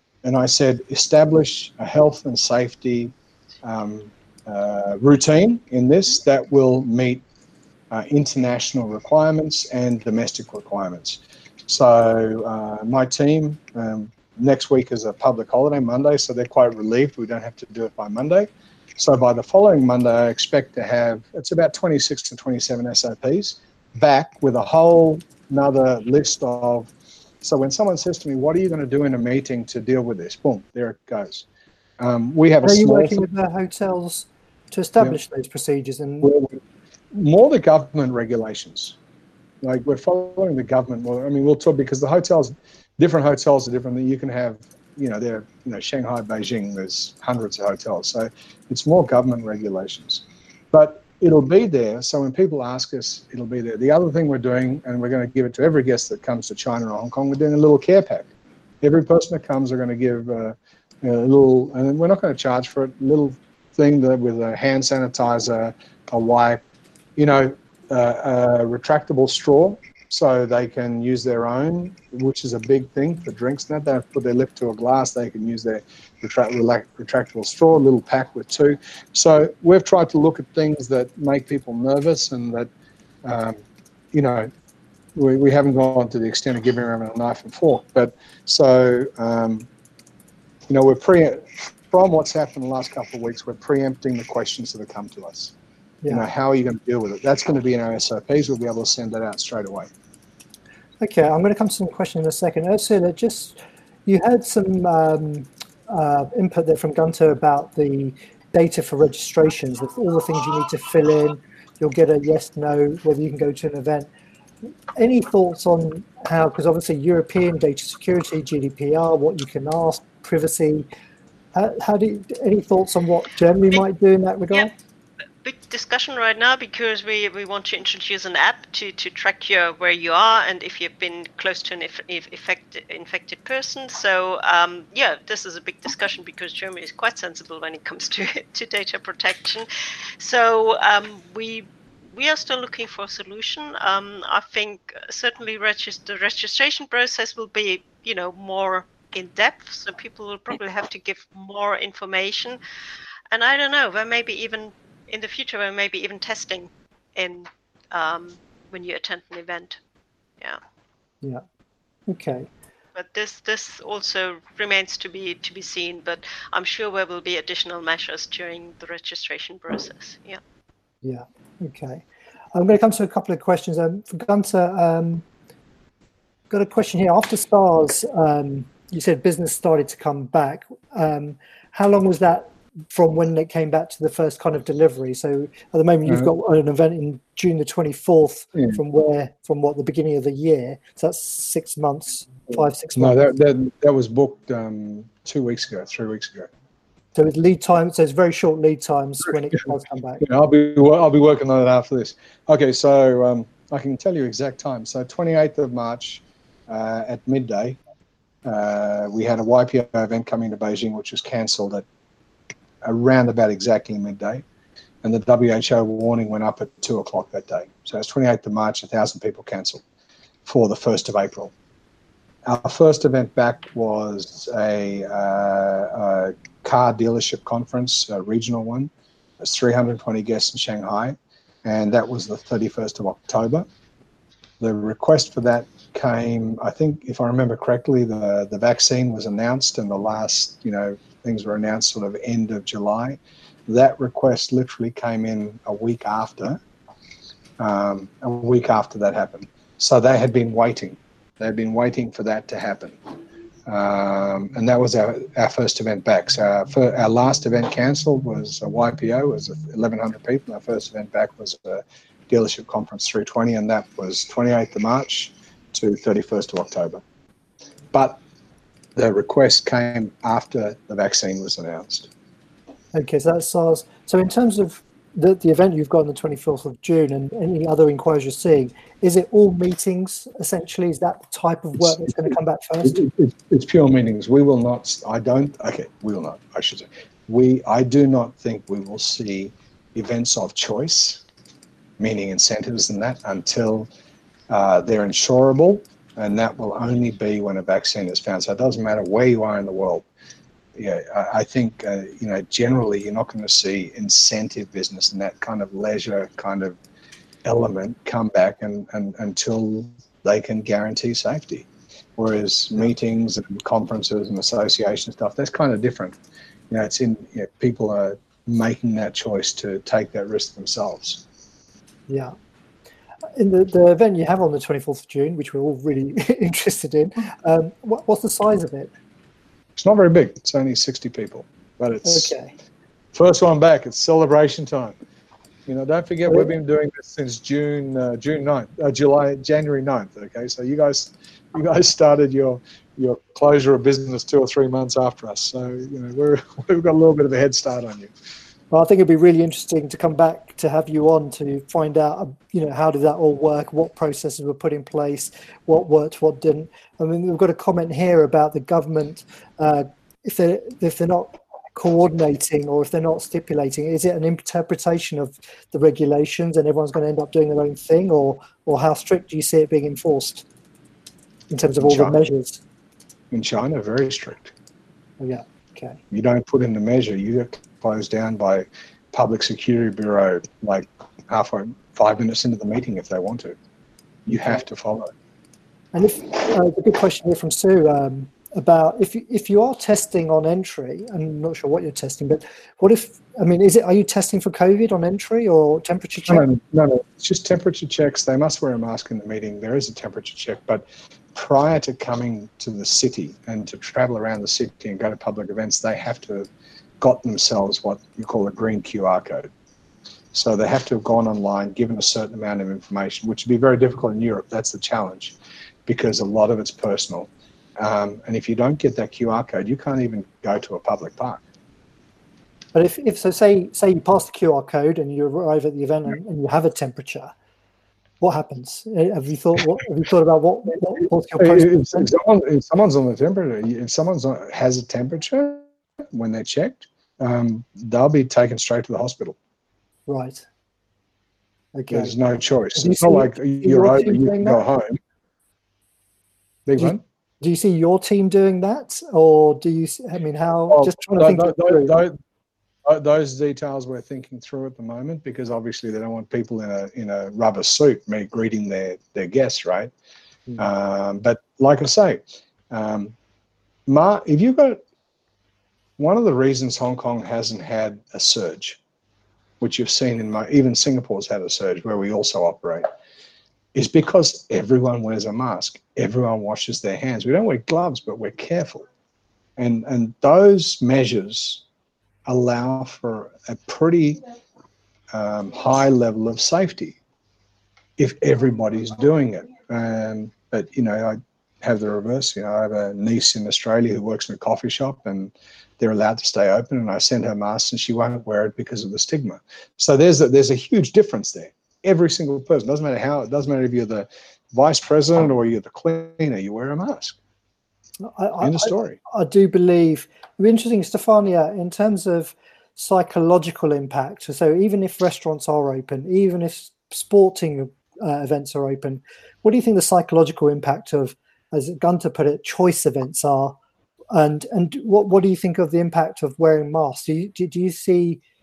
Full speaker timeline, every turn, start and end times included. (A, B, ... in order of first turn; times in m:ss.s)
0:00.2-0:03.1 A
0:03.6-0:07.2 A
0:07.9-0:26.9 A
0:27.4-0:31.5 A
0:32.0-0:33.3 A
0:32.6-0:36.3 B
0:36.2-0:36.6 A
0:37.1-0:39.0 A
0:39.6-0:58.3 A
0:58.8-1:06.6 A
1:07.2-1:22.7 A
1:23.2-1:23.6 A
1:24.1-1:24.5 A
1:25.2-1:29.7 A
1:30.7-1:35.5 A
1:36.1-1:39.9 A
1:41.0-1:54.1 B
1:55.0-2:00.9 B
2:01.6-2:04.7 B
2:05.4-2:19.7 C
2:20.2-2:32.6 C
2:33.3-2:39.8 C
2:42.1-2:42.5 B
2:43.0-2:50.4 C
2:51.0-2:55.2 B
2:56.5-3:13.3 B
3:06.1-3:06.3 A
3:13.0-3:16.5 A
3:17.2-3:20.2 B
3:20.2-3:27.8 A
3:28.4-3:31.8 A
3:32.8-3:34.4 A
3:35.0-3:39.8 A
3:40.5-3:41.5 A
3:42.4-3:53.7 A
3:54.6-4:06.6 A
4:07.6-4:13.0 A
4:13.7-4:27.0 A
4:27.9-4:28.2 A
4:29.0-4:32.1 A
4:32.9-4:43.0 B
4:42.8-4:51.2 A
4:52.0-4:53.9 A
4:54.5-5:00.1 A
5:00.8-5:06.8 A
5:07.4-5:16.2 A
5:16.7-5:21.2 A
5:22.1-5:22.4 B
5:23.4-5:28.9 B
5:29.8-5:32.3 A
5:32.0-5:32.5 B
5:33.1-5:35.0 A
5:35.7-5:48.1 A
5:48.7-6:10.5 B
6:11.5-6:12.6 B
6:11.8-6:12.2 A
6:13.3-6:14.5 A
6:15.2-6:16.0 B
6:16.1-6:23.6 A
6:24.3-6:25.1 A
6:25.9-6:36.5 B
6:36.3-6:46.5 A
6:47.0-6:49.5 A
6:50.3-6:55.4 A
6:55.9-7:01.4 A
7:02.7-7:07.3 B
7:08.2-7:12.1 B
7:11.4-7:19.4 A
7:20.1-7:20.4 B
7:21.8-7:22.2 B
7:21.9-7:25.0 A
7:22.8-7:24.6 B
7:26.7-7:27.0 A
7:26.8-7:31.9 B
7:30.7-7:32.2 A
7:32.9-7:39.9 A
7:40.6-7:43.1 A
7:43.9-7:44.8 A
7:46.0-7:48.8 A
7:49.6-7:52.9 A
7:53.7-7:58.9 A
7:59.6-8:01.6 A
8:02.3-8:04.2 A
8:05.1-8:07.0 A
8:08.0-8:27.2 A
8:28.0-8:43.6 B
8:28.4-8:29.0 A
8:44.1-8:48.2 B